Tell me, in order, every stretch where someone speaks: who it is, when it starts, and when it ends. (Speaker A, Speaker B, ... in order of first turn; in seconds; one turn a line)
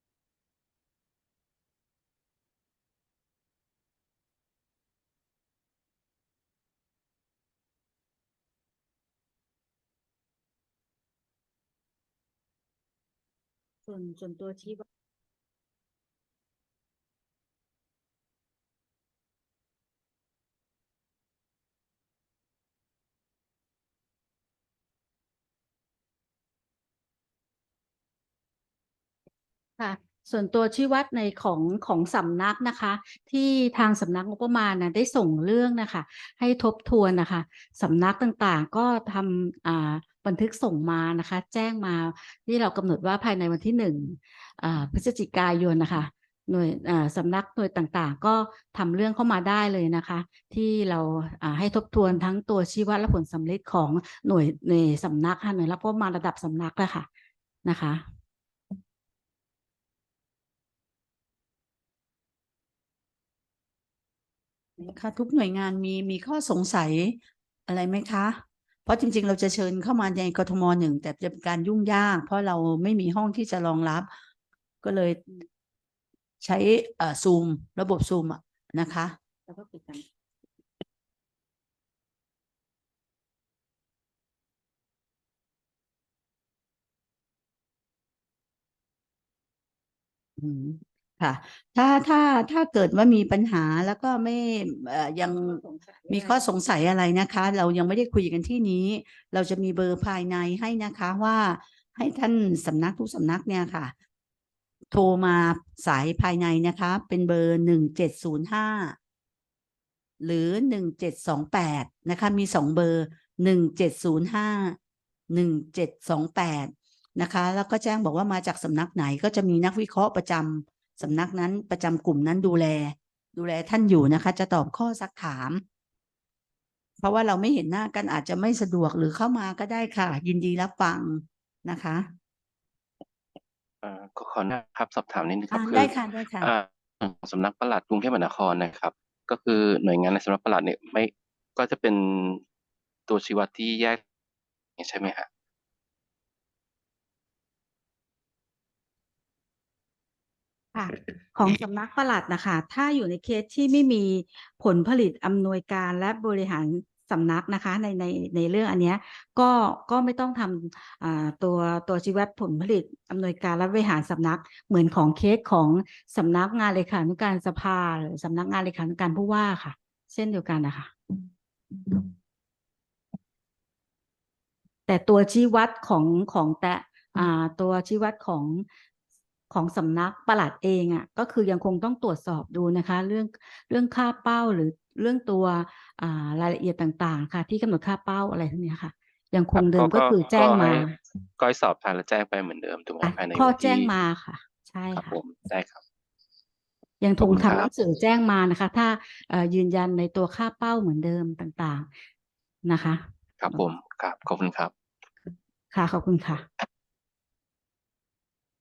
Speaker A: 13.8-14.8
Speaker A: 29.8-57.0
Speaker A: 57.6-58.0
Speaker B: 64.8-74.1
Speaker B: 74.8-75.2
Speaker B: 76.4-79.2
Speaker A: 79.5-80.0
Speaker B: 90.4-103.9
Speaker A: 95.4-96.5
Speaker B: 104.9-109.0
Speaker B: 110.2-114.8
Speaker B: 115.3-125.6
Speaker B: 127.0-132.1
Speaker C: 133.8-142.4
Speaker B: 135.5-136.5
Speaker C: 143.1-144.0
Speaker C: 144.8-145.3
Speaker A: 150.7-170.9
Speaker A: 174.9-178.7
Speaker A: 179.5-190.9
Speaker C: 189.5-193.9
Speaker A: 193.0-195.2
Speaker C: 194.9-195.8
Speaker A: 197.0-201.9
Speaker C: 197.2-197.7
Speaker A: 202.6-203.6
Speaker C: 203.4-204.7
Speaker A: 205.7-206.4